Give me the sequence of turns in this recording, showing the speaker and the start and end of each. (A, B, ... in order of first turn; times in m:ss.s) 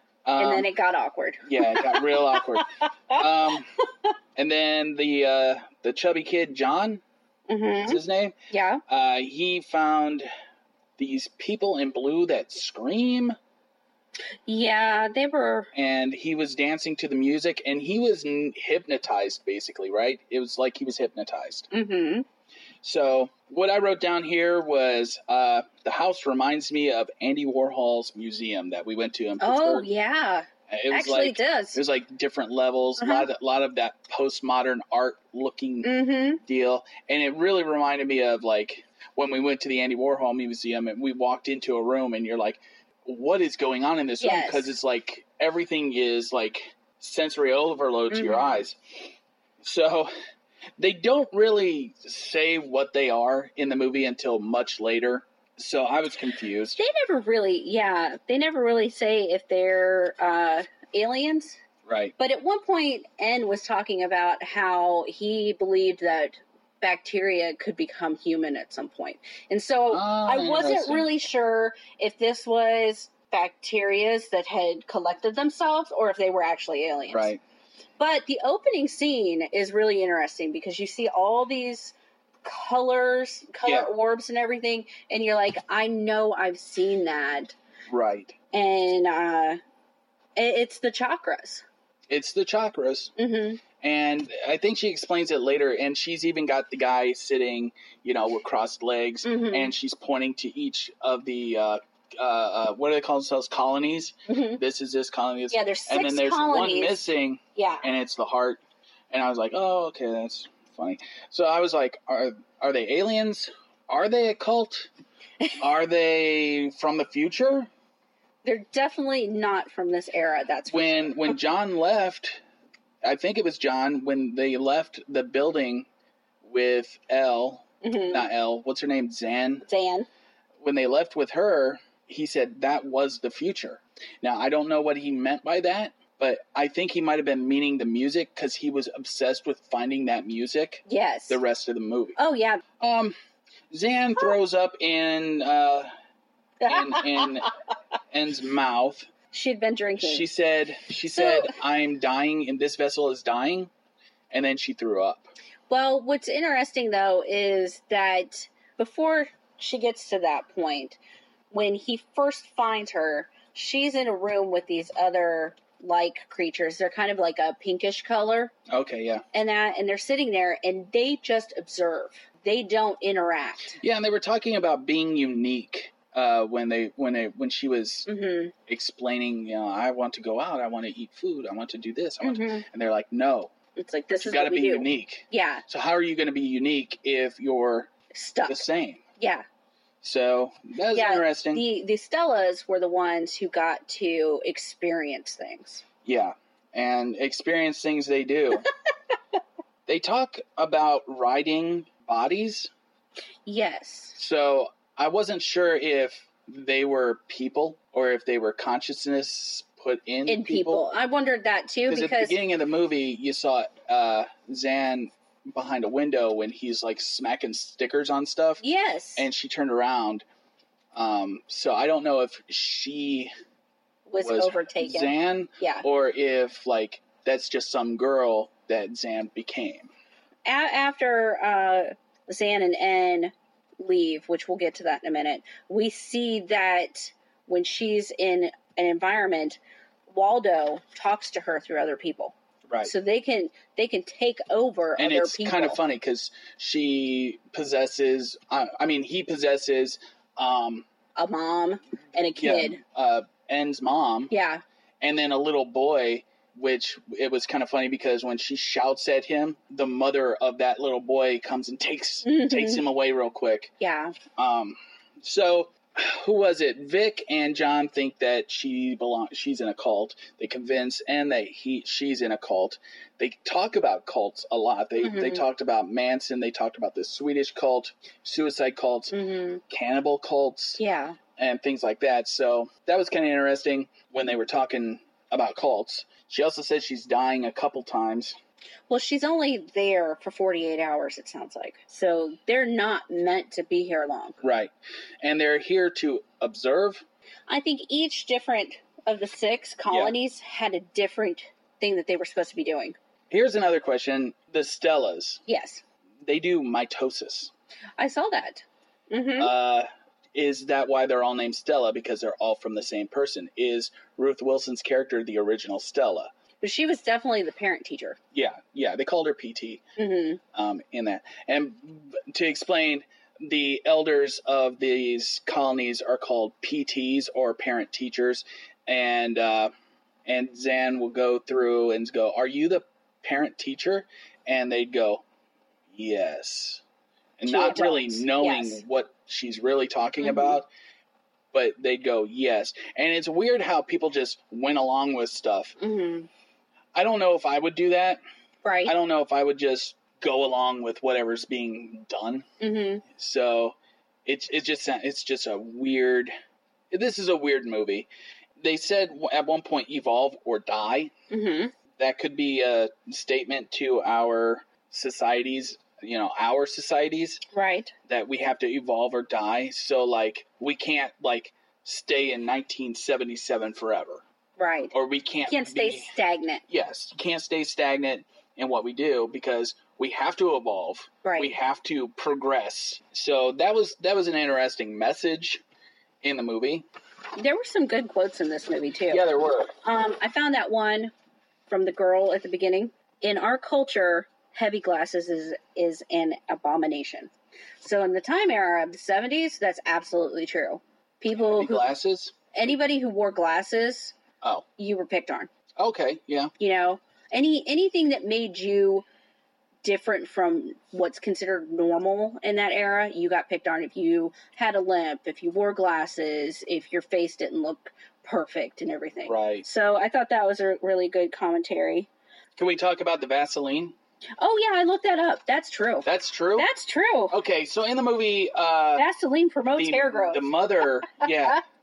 0:00.2-0:00.7 A
0:00.4-0:03.2 B
0:01.4-0:03.7 A
0:04.4-0:07.0 A
0:07.5-0:08.8 B
0:07.8-0:08.4 A
0:08.9-0:10.3 A
0:11.0-0:13.4 A
0:14.5-0:15.7 B
0:15.7-0:21.7 A
0:21.7-0:22.2 B
0:22.8-0:29.9 A
0:29.4-0:31.8 B
0:30.7-0:48.8 A
0:33.0-0:33.3 B
0:35.8-0:36.4 B
0:44.2-0:44.7 B
0:48.1-0:48.6 B
0:49.6-0:50.1 A
0:50.8-0:56.8 A
0:56.8-1:01.6 B
1:01.8-1:02.1 A
1:02.2-1:17.3 B
1:09.9-1:11.1 A
1:17.1-1:17.4 A
1:18.0-1:27.5 B
1:27.9-1:28.3 A
1:28.5-1:29.6 B
1:30.4-1:31.6 B
1:32.1-1:33.1 A
1:33.2-1:33.6 B
1:33.8-1:54.9 A
1:39.2-1:39.7 B
1:44.3-1:44.6 B
1:45.5-1:47.8 B
1:55.6-1:57.7 A
1:58.4-2:01.3 B
2:00.7-2:02.4 A
2:03.0-2:05.9 A
2:06.4-2:09.6 A
2:07.8-2:08.2 B
2:09.6-2:10.1 B
2:10.6-2:22.2 A
2:20.9-2:21.4 B
2:22.2-2:22.6 B
2:22.8-2:23.1 A
2:23.7-2:25.9 A
2:26.6-2:27.5 B
2:26.7-2:27.5 A
2:28.1-2:29.1 A
2:29.3-2:30.2 B
2:30.0-2:33.7 A
2:31.2-2:31.5 B
2:34.3-2:35.3 A
2:35.7-2:41.0 B
2:41.5-2:48.5 B
2:48.7-2:49.2 A
2:49.3-2:53.8 B
2:53.8-2:58.1 A
2:58.0-2:58.5 B
2:58.7-3:03.5 A
3:02.2-3:02.6 B
3:03.8-3:05.6 B
3:04.1-3:07.9 A
3:08.1-3:08.6 B
3:08.5-3:09.0 A
3:09.2-3:09.4 B
3:10.0-3:11.6 A
3:10.9-3:15.8 B
3:16.0-3:18.7 A
3:19.9-3:22.7 A
3:23.4-3:24.2 B
3:24.2-3:30.8 A
3:30.3-3:32.4 B
3:31.9-3:38.6 A
3:38.6-3:39.3 B
3:39.2-3:40.2 A
3:40.9-3:43.3 A
3:44.1-3:45.8 B
3:44.2-3:49.9 A
3:50.4-4:05.8 B
4:05.0-4:10.8 A
4:11.2-4:12.8 B
4:12.4-4:14.3 A
4:14.3-4:14.6 B
4:15.0-4:23.7 A
4:22.2-4:22.8 B
4:23.8-4:24.1 B
4:24.4-4:39.1 A
4:35.0-4:35.4 B
4:39.1-4:39.6 B
4:39.7-4:40.8 A
4:40.8-4:41.2 B
4:41.4-4:48.4 A
4:48.9-4:54.4 B
4:54.4-4:57.0 A
4:57.5-5:03.0 B
5:03.3-5:05.4 A
5:05.5-5:05.8 B
5:06.2-5:07.5 A
5:08.0-5:09.5 B
5:09.4-5:16.3 A
5:16.6-5:18.2 B
5:18.3-5:19.8 A
5:20.0-5:20.4 B
5:20.5-5:29.7 A
5:30.2-5:35.2 A
5:35.9-5:36.8 A
5:37.4-5:40.7 A
5:37.4-5:38.8 B
5:40.2-5:40.6 B
5:41.5-5:45.8 A
5:45.8-5:46.3 B
5:46.9-5:48.2 A
5:48.6-5:48.9 B
5:48.8-5:52.4 A
5:52.6-5:53.0 B
5:53.0-5:56.3 A
5:56.9-5:58.1 A
5:58.6-6:01.1 A
6:01.3-6:01.7 B
6:02.0-6:07.4 A
6:07.5-6:07.9 B
6:08.1-6:14.2 A
6:14.6-6:14.9 B
6:14.9-6:16.1 A
6:15.4-6:16.6 B
6:16.7-6:25.6 A
6:21.2-6:21.5 B
6:26.2-6:26.8 A
6:27.4-6:29.2 B
6:29.1-6:29.7 A
6:29.8-6:31.1 B
6:31.7-6:41.9 B
6:41.4-6:42.3 A
6:42.5-6:44.1 B
6:44.8-6:45.5 B
6:45.8-6:46.5 A
6:46.6-6:49.0 B
6:49.8-7:02.1 B
6:59.2-6:59.6 A
7:02.6-7:04.0 A
7:04.4-7:07.3 B
7:06.0-7:06.7 A
7:07.3-7:09.0 A
7:09.0-7:10.5 B
7:09.8-7:11.6 A